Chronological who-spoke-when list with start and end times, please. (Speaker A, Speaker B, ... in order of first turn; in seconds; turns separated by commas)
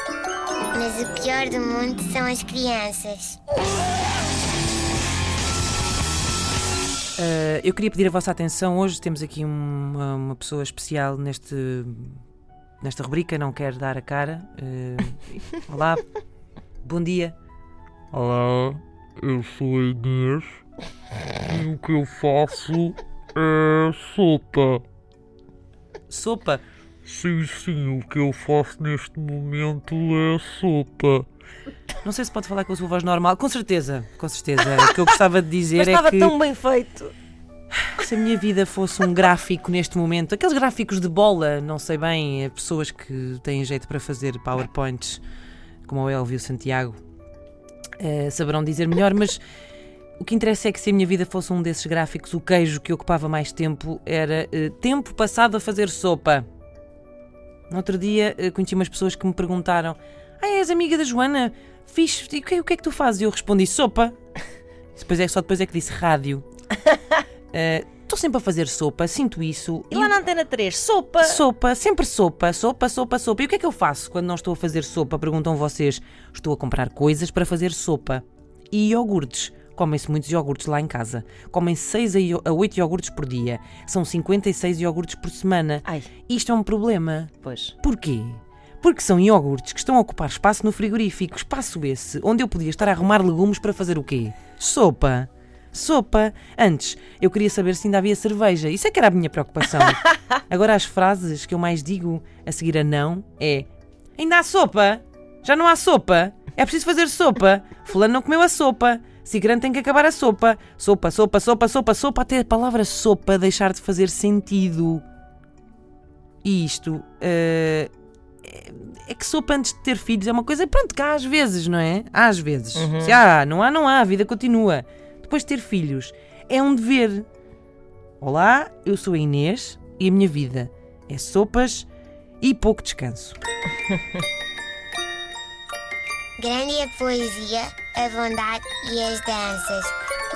Speaker A: 0.7-3.4, Speaker B: 7.2-12.2, Speaker B: 12.8-16.0, Speaker B: 16.8-17.4, Speaker C: 18.1-20.6, Speaker C: 21.4-24.8, Speaker B: 26.1-26.6, Speaker C: 27.0-31.2, Speaker B: 32.0-36.3, Speaker D: 35.8-37.1, Speaker B: 37.9-45.2, Speaker B: 45.9-47.0, Speaker B: 48.0-49.4, Speaker B: 50.2-56.5, Speaker B: 57.7-64.2, Speaker B: 64.9-66.5, Speaker B: 67.5-70.2, Speaker D: 69.9-71.4, Speaker B: 71.2-115.0, Speaker D: 87.4-87.7, Speaker B: 116.4-117.9, Speaker B: 118.4-127.3, Speaker D: 122.8-123.2, Speaker B: 128.2-131.9, Speaker B: 132.4-133.4, Speaker A: 136.4-140.1